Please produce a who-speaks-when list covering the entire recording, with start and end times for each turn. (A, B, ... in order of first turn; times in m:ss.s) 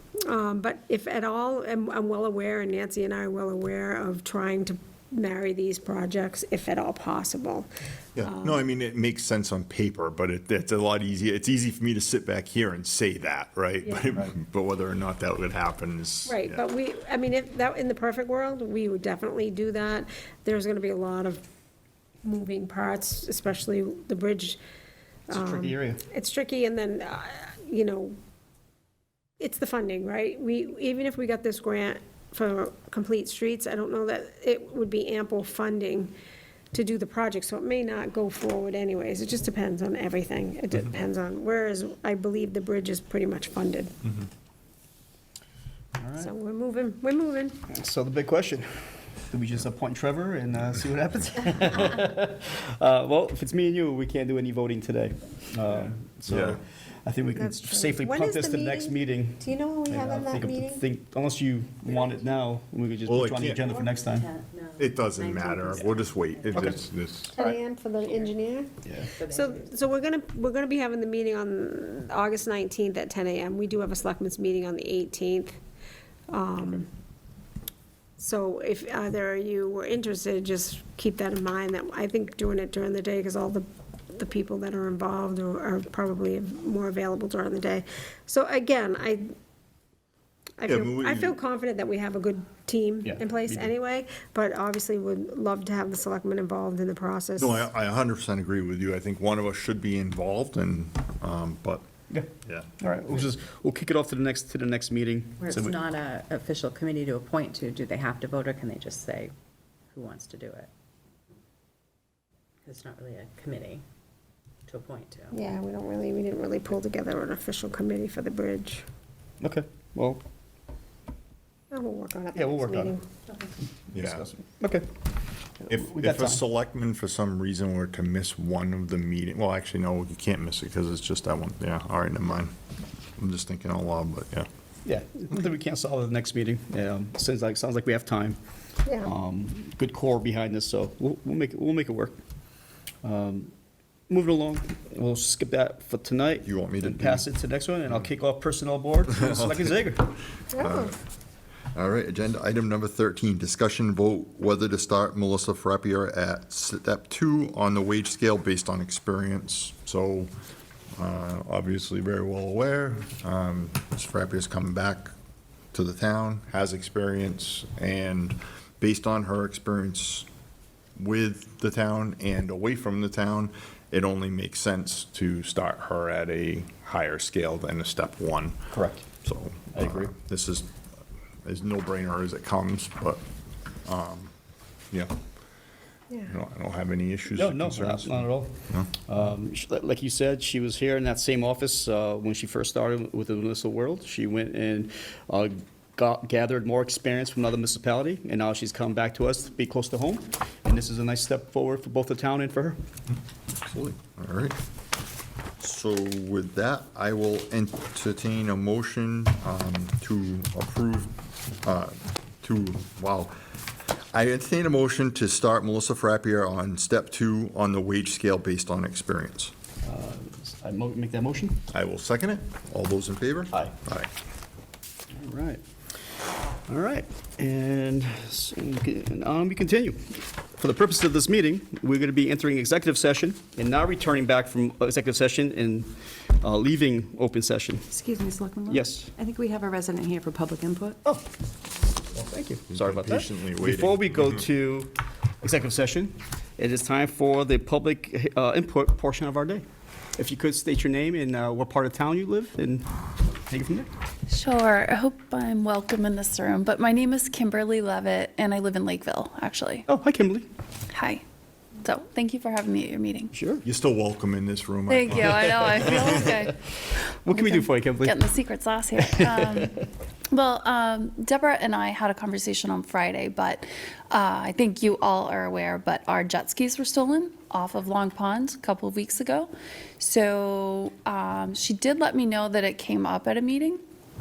0:00.2-0:07.7 A
0:08.2-0:16.6 B
0:08.2-0:08.6 A
0:16.3-0:21.4 A
0:22.2-0:24.6 A
0:25.3-0:26.0 C
0:25.3-0:28.2 A
0:29.4-0:36.1 A
0:36.7-0:44.1 A
0:46.0-0:46.3 C
0:46.2-0:47.6 A
0:47.7-1:04.3 C
0:56.3-0:56.6 B
0:57.4-1:00.8 A
1:03.0-1:03.7 B
1:03.6-1:06.7 D
1:04.8-1:07.3 B
1:06.5-1:06.8 C
1:07.3-1:15.6 A
1:09.1-1:09.7 D
1:16.3-1:16.9 A
1:18.2-1:29.3 A
1:30.6-1:37.7 A
1:30.7-1:31.4 B
1:33.0-1:33.7 C
1:37.4-1:41.8 B
1:42.1-1:45.9 C
1:42.4-1:43.3 B
1:45.4-1:49.3 D
1:49.9-1:50.7 D
1:52.6-1:53.8 D
1:54.7-1:55.3 D
1:55.3-1:58.9 A
1:59.4-2:00.2 C
2:01.7-2:03.0 A
2:02.3-2:03.0 C
2:03.3-2:03.6 D
2:03.9-2:04.9 C
2:03.9-2:04.3 B
2:05.6-2:06.4 C
2:05.7-2:12.5 B
2:13.2-2:14.5 B
2:14.8-2:18.4 C
2:18.8-2:19.1 A
2:19.0-2:22.2 C
2:23.0-2:23.5 C
2:24.1-2:30.2 C
2:26.4-2:27.3 B
2:30.5-2:30.9 A
2:30.5-2:31.0 B
2:31.7-2:40.3 B
2:41.0-2:45.1 B
2:45.7-2:50.3 B
2:51.0-2:58.6 B
2:58.7-2:59.1 C
2:59.2-3:00.7 B
2:59.7-3:00.1 C
3:01.4-3:03.2 B
3:03.8-3:04.3 B
3:06.2-3:08.9 B
3:07.3-3:22.8 C
3:23.6-3:24.6 B
3:25.6-3:33.3 B
3:34.1-3:39.5 B
3:39.8-3:41.6 C
3:41.7-3:44.1 B
3:45.1-3:46.1 C
3:46.7-3:58.0 C
3:58.0-3:58.8 E
3:58.7-3:59.1 C
3:59.4-4:01.0 E
4:01.0-4:01.3 C
4:02.1-4:13.9 C
4:02.7-4:04.3 B
4:14.3-4:19.9 F
4:19.9-4:20.5 C
4:20.9-4:21.2 F
4:21.8-4:23.3 F
4:23.3-4:23.6 C
4:23.6-4:26.3 B
4:24.9-4:26.6 F
4:26.4-4:28.2 C
4:27.3-4:43.8 F
4:29.0-4:29.7 C